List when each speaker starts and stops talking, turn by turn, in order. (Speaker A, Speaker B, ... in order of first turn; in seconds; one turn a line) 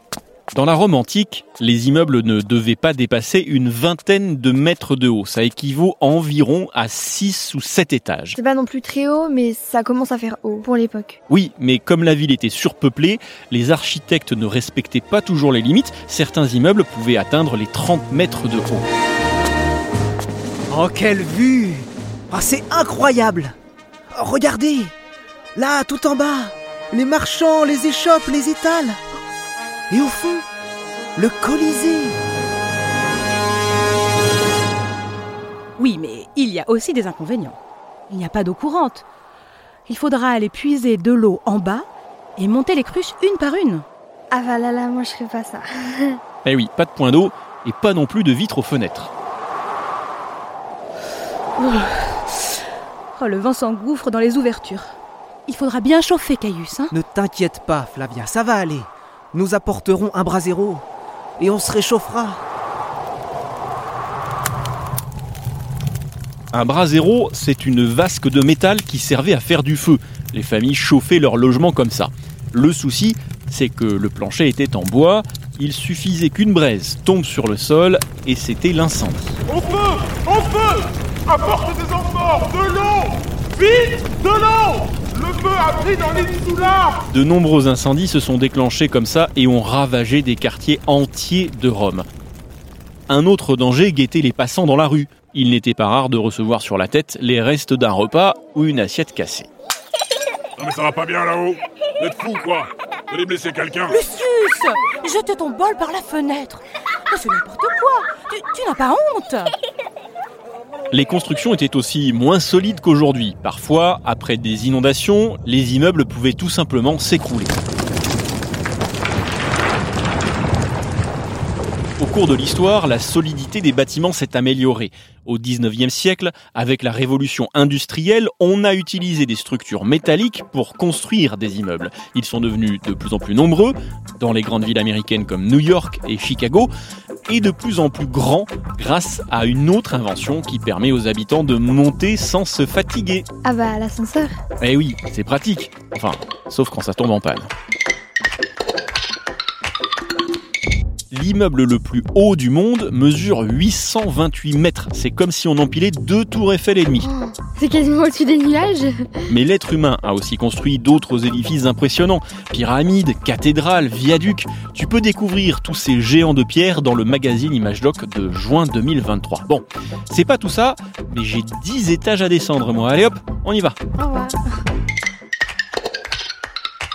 Speaker A: 0.5-8.4
Speaker B: 8.4-11.2
Speaker A: 11.3-18.8
Speaker C: 20.7-23.5
Speaker C: 24.1-24.9
Speaker C: 25.6-29.0
Speaker C: 29.9-30.4
Speaker C: 31.1-32.2
Speaker D: 35.8-37.6
Speaker D: 38.1-39.0
Speaker D: 39.9-43.8
Speaker B: 44.3-46.2
Speaker A: 46.4-49.1
Speaker D: 51.6-52.5
Speaker D: 53.1-55.0
Speaker D: 55.5-56.9
Speaker C: 56.9-60.8
Speaker C: 61.4-62.4
Speaker A: 66.5-79.4
Speaker E: 79.5-87.0
Speaker A: 87.1-92.1
Speaker A: 93.1-99.5
Speaker E: 100.6-103.9
Speaker D: 103.8-109.5
Speaker A: 110.9-117.6
Speaker A: 122.0-136.7
Speaker A: 137.3-143.2
Speaker B: 143.4-144.3
Speaker A: 144.6-147.5
Speaker A: 151.1-157.1
Speaker B: 157.0-159.1
Speaker A: 159.3-173.8
Speaker B: 174.0-174.4